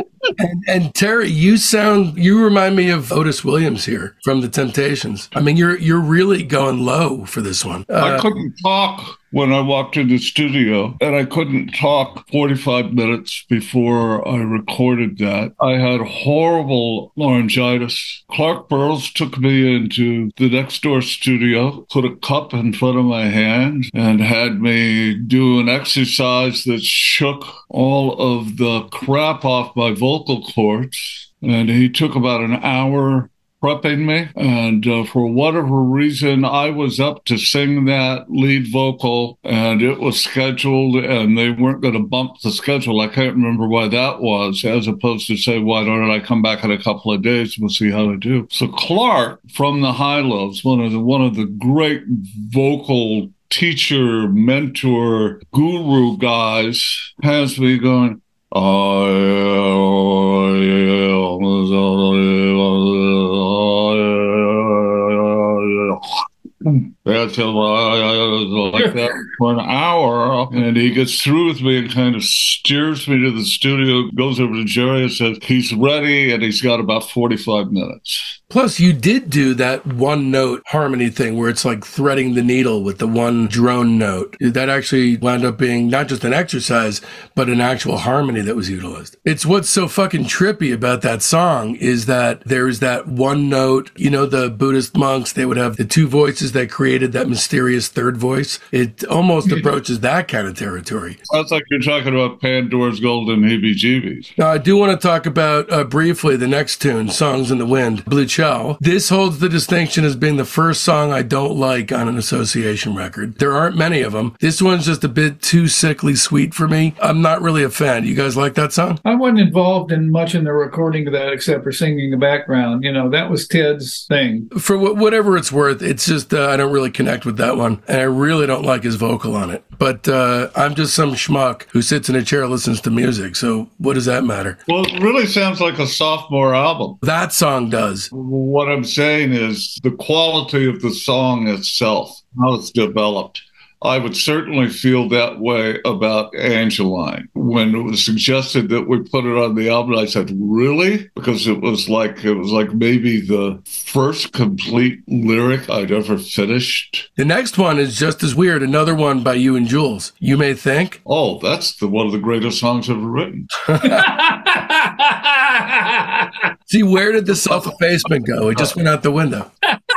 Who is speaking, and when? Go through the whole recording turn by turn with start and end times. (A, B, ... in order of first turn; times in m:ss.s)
0:00.4-0:08.3 A
0:08.0-1:18.4 B
1:18.5-1:41.2 A
1:41.3-1:44.3 B
1:44.4-1:59.0 A
1:59.0-2:04.5 C
2:04.5-2:14.6 A
2:14.7-2:17.0 B
2:17.0-2:18.1 A
2:18.1-2:37.1 B
2:37.2-2:41.0 A
2:41.0-2:43.5 B
2:43.6-2:44.1 A
2:43.8-2:46.4 C
2:46.7-2:49.5 A